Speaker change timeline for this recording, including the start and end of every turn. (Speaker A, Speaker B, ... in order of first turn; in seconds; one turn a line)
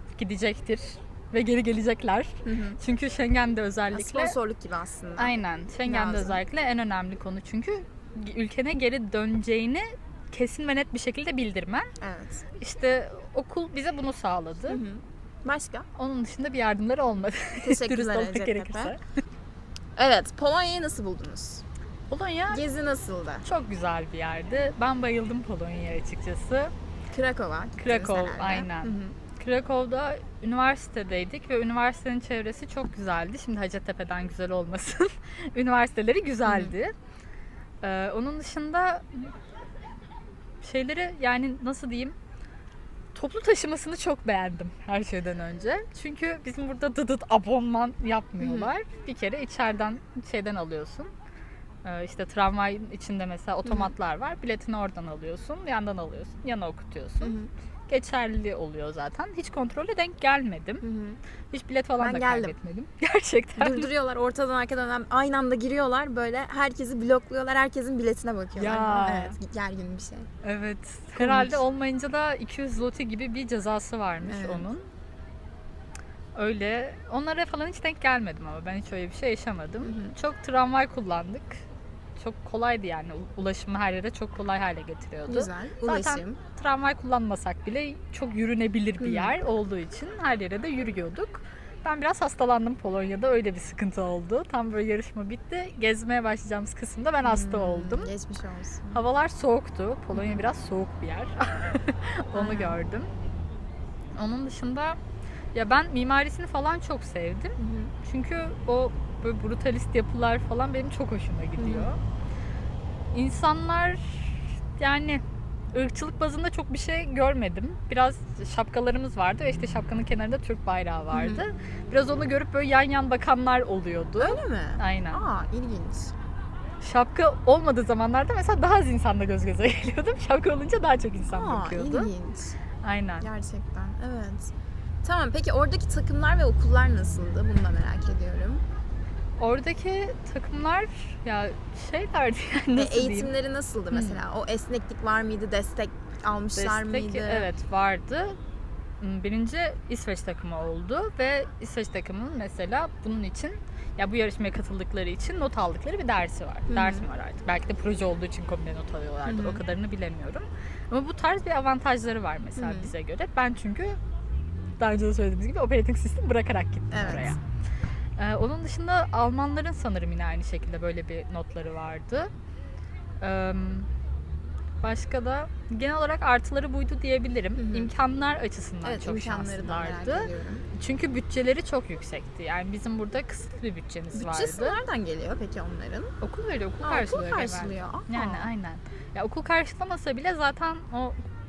Speaker A: 0.1-4.3
Speaker B: 2.4-2.8
Speaker B: 3.9-6.4
Speaker A: 5.2-11.9
Speaker B: 12.0-12.4
Speaker A: 12.6-14.8
Speaker B: 14.7-15.9
Speaker A: 15.9-19.0
Speaker B: 17.6-18.9
Speaker B: 19.9-21.6
Speaker A: 22.1-22.6
Speaker B: 22.5-23.4
Speaker A: 23.4-26.7
Speaker B: 27.1-29.1
Speaker A: 27.8-36.9
Speaker B: 36.5-36.7
Speaker A: 37.8-39.3
Speaker A: 40.6-42.1
Speaker A: 43.1-51.1
Speaker B: 48.4-48.7
Speaker A: 51.8-57.3
Speaker B: 53.6-53.9
Speaker B: 57.2-57.5
Speaker A: 57.9-60.8
Speaker B: 60.8-61.2
Speaker A: 61.5-63.9
Speaker B: 62.0-62.5
Speaker B: 63.6-70.3
Speaker A: 68.5-69.4
Speaker A: 70.4-74.9
Speaker B: 71.2-71.6
Speaker B: 74.2-74.7
Speaker A: 76.3-81.7
Speaker B: 79.8-80.1
Speaker A: 82.2-98.1
Speaker B: 85.3-86.4
Speaker B: 89.0-89.3
Speaker B: 97.2-99.0
Speaker A: 98.9-103.1
Speaker B: 100.1-100.4
Speaker B: 102.3-102.8
Speaker A: 104.2-105.0
Speaker A: 105.5-112.0
Speaker B: 107.6-107.9
Speaker B: 111.6-111.9
Speaker A: 113.1-115.2
Speaker A: 115.7-125.2
Speaker B: 121.1-121.4
Speaker B: 124.2-126.1
Speaker A: 126.8-132.1
Speaker B: 131.3-132.5
Speaker A: 132.8-133.3
Speaker B: 133.2-134.5
Speaker B: 135.0-138.6
Speaker A: 139.4-143.3
Speaker B: 142.7-147.5
Speaker A: 143.9-144.2
Speaker A: 146.5-148.4
Speaker A: 149.0-164.0
Speaker B: 156.7-157.0
Speaker B: 159.2-159.6
Speaker B: 162.6-162.9
Speaker A: 164.8-167.4
Speaker B: 166.9-167.4
Speaker A: 168.2-172.3
Speaker A: 173.2-173.9
Speaker A: 174.8-184.8
Speaker B: 177.6-177.9
Speaker B: 178.8-180.6
Speaker B: 184.1-186.1
Speaker A: 186.2-191.2
Speaker B: 186.8-188.5